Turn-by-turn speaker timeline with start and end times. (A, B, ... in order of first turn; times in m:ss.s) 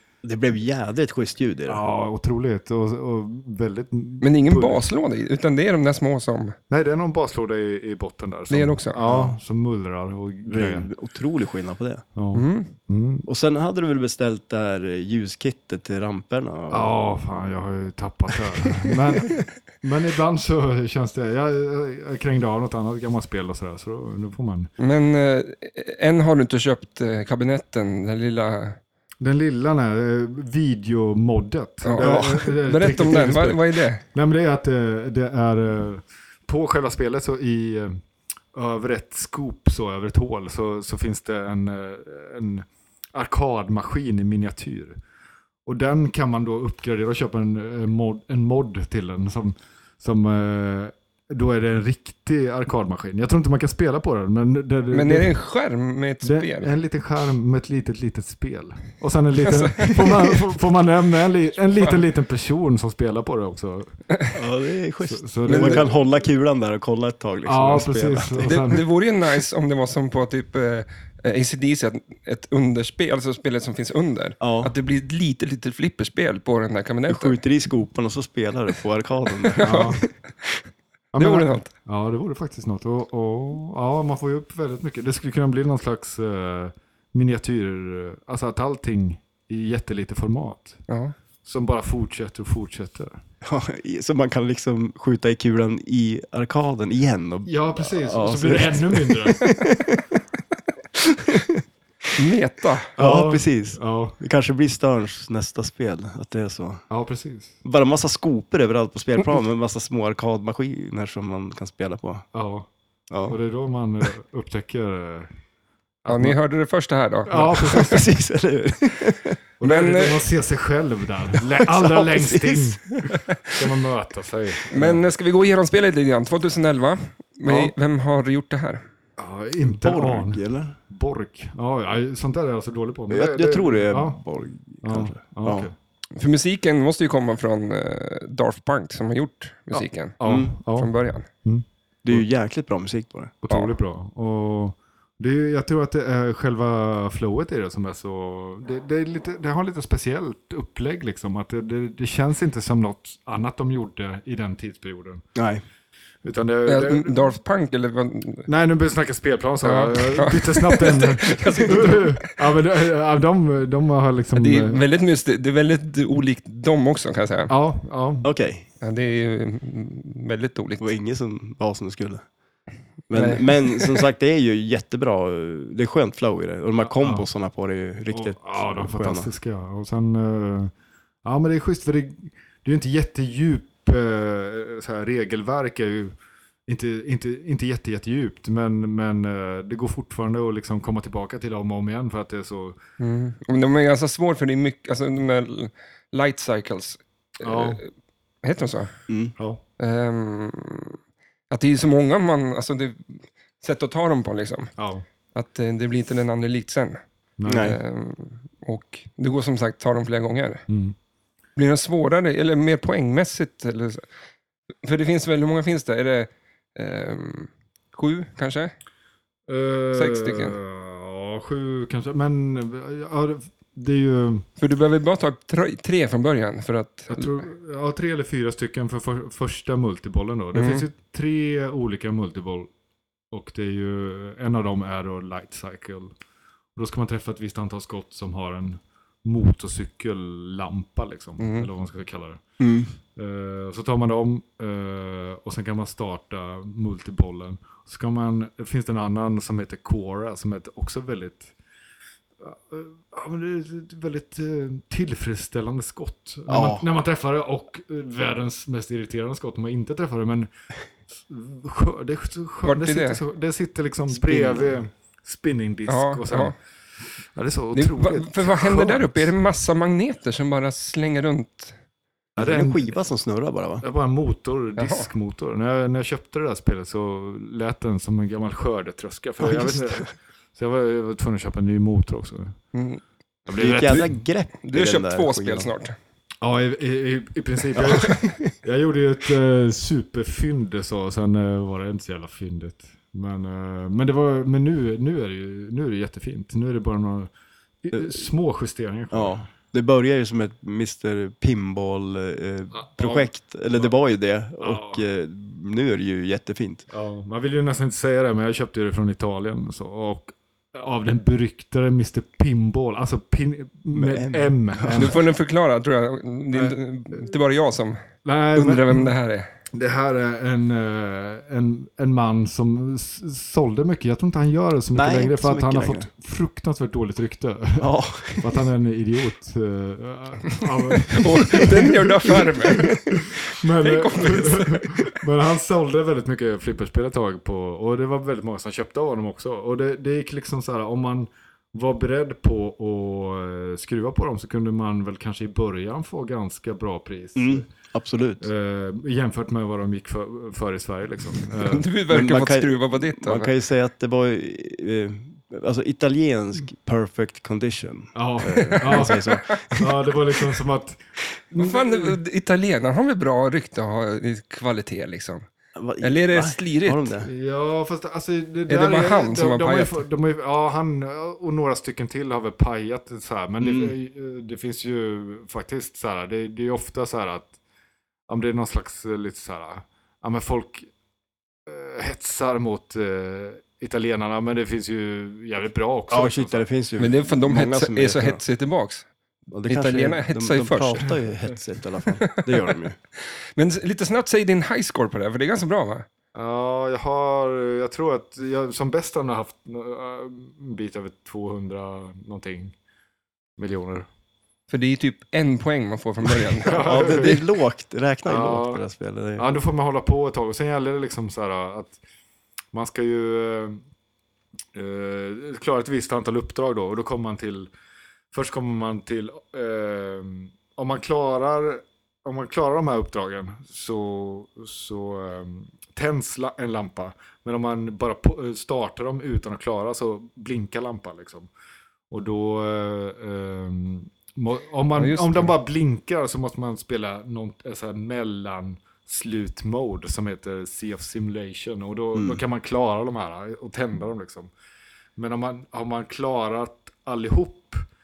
0:00.2-0:01.8 A
0:01.7-0:04.8 B
0:04.2-0:06.6 C
0:06.7-0:10.9 B
0:08.5-0:09.0 C
0:09.0-0:09.4 A
0:10.5-0:12.0 A
0:12.1-0:13.2 B
0:12.3-0:12.7 C
0:13.2-0:16.9 A
0:16.7-0:24.7 B
0:24.8-0:28.8 C
0:29.2-0:38.0 B
0:31.8-0:34.0 C
0:32.0-0:32.6 A
0:38.5-0:45.0 B
0:45.6-0:55.3 B
0:54.9-0:56.7 C
0:56.2-1:03.9 B
0:59.4-1:00.4 C
1:04.3-1:08.6 A
1:05.0-1:06.0 B
1:05.4-1:05.8 C
1:07.4-1:08.8 B
1:08.4-1:17.4 C
1:14.4-1:14.7 A
1:17.1-1:20.0 A
1:19.5-1:20.0 C
1:19.6-1:20.0 B
1:21.1-1:30.8 B
1:21.2-1:21.7 C
1:30.9-1:31.1 C
1:31.4-1:33.1 B
1:33.4-1:40.2 A
1:37.5-1:39.5 B
1:40.9-1:41.6 A
1:42.2-1:42.9 C
1:43.0-1:44.2 B
1:43.0-1:46.8 A
1:46.9-1:47.6 B
1:47.6-1:52.2 A
1:52.3-1:52.7 B
1:53.1-1:53.4 A
1:53.2-1:55.3 B
1:56.0-1:56.4 B
1:56.1-1:58.0 C
1:57.3-1:58.0 B
1:57.6-1:59.4 A
1:59.6-2:05.0 B
1:59.6-2:00.2 C
2:01.6-2:02.8 A
2:04.7-2:08.8 C
2:09.2-2:14.2 B
2:09.6-2:10.7 A
2:13.1-2:15.7 A
2:14.8-2:15.7 B
2:16.2-2:20.2 C
2:19.8-2:20.9 B
2:20.2-2:20.5 A
2:20.7-2:21.3 C
2:21.4-2:22.2 B
2:22.0-2:23.3 A
2:23.4-2:35.2 B
2:35.3-2:35.6 A
2:36.2-2:37.3 B
2:36.6-2:38.5 C
2:38.5-2:44.8 B
2:39.6-2:42.3 C
2:44.4-2:47.5 C
2:47.5-2:48.3 B
2:48.2-2:48.6 A
2:48.8-2:50.9 C
2:50.8-2:52.2 A
2:53.1-2:59.3 A
2:53.1-2:54.0 C
2:56.8-2:57.2 B
2:58.1-3:00.7 B
3:01.2-3:06.1 B
3:06.7-3:12.8 B
3:13.0-3:17.9 C
3:17.4-3:17.8 B
3:18.4-3:18.9 C
3:19.8-3:21.0 C
3:21.5-3:24.7 C
3:24.8-3:25.0 B
3:25.3-3:27.0 C
3:27.4-3:27.8 B
3:27.4-3:27.8 A
3:27.6-3:30.6 C
3:30.7-3:30.9 B
3:31.6-3:34.0 C
3:34.8-3:38.7 C
3:39.5-3:44.5 B
3:39.9-3:40.6 C
3:44.6-3:47.4 C
3:47.1-3:52.7 B
3:50.5-3:50.8 C
3:53.3-3:56.1 B
3:56.8-4:02.4 B
4:01.4-4:01.7 C
4:02.6-4:02.9 A
4:03.2-4:11.5 B
4:12.4-4:20.5 B
4:16.5-4:16.8 A
4:21.2-4:26.5 B
4:22.6-4:23.2 C
4:24.1-4:24.7 A
4:25.9-4:26.5 C
4:27.3-4:29.3 B
4:27.7-4:31.7 C
4:32.4-4:33.0 B
4:32.4-4:33.8 A
4:33.8-4:42.6 B
4:34.8-4:35.1 C
4:39.4-4:40.1 A
4:42.7-4:43.0 C
4:43.5-4:44.2 B
4:43.5-4:45.7 A
4:44.6-4:46.0 C
4:46.4-4:57.3 B
4:57.8-4:59.4 B
4:57.9-4:58.2 A
4:59.1-5:06.8 A
5:02.7-5:03.9 B
5:04.6-5:05.0 B
5:06.9-5:15.2 B
5:13.9-5:15.2 A
5:14.9-5:18.0 C
5:16.5-5:16.8 B
5:18.2-5:19.1 B
5:18.5-5:19.5 C
5:19.7-5:47.6 B
5:24.9-5:26.1 A
5:27.8-5:28.6 A
5:31.1-5:33.0 C
5:31.6-5:33.0 A
5:33.8-5:35.0 C
5:47.4-5:48.5 A
5:48.4-5:51.9 B
5:51.6-5:53.5 C
5:52.1-6:00.0 A
5:58.1-6:02.2 B
5:58.6-5:59.6 C
6:01.6-6:05.5 C
6:05.7-6:07.3 A
6:06.0-6:07.1 C
6:07.2-6:17.5 B
6:08.7-6:10.0 C
6:13.6-6:13.9 A
6:18.3-6:20.9 B
6:21.7-6:26.6 B
6:26.1-6:28.4 A
6:27.0-6:29.1 C
6:29.5-6:33.0 A
6:29.6-6:31.1 C
6:33.6-6:36.0 C
6:36.3-6:42.7 B
6:43.6-6:44.1 B
6:44.7-6:47.4 C
6:46.5-6:47.4 B
6:46.8-6:49.5 A
6:48.2-6:48.8 B
6:49.4-6:52.0 B
6:52.7-6:53.8 B
6:54.7-6:57.7 B
6:58.3-7:11.5 B
7:12.1-7:24.5 B
7:15.0-7:15.5 C
7:22.1-7:22.4 A
7:25.2-7:27.8 B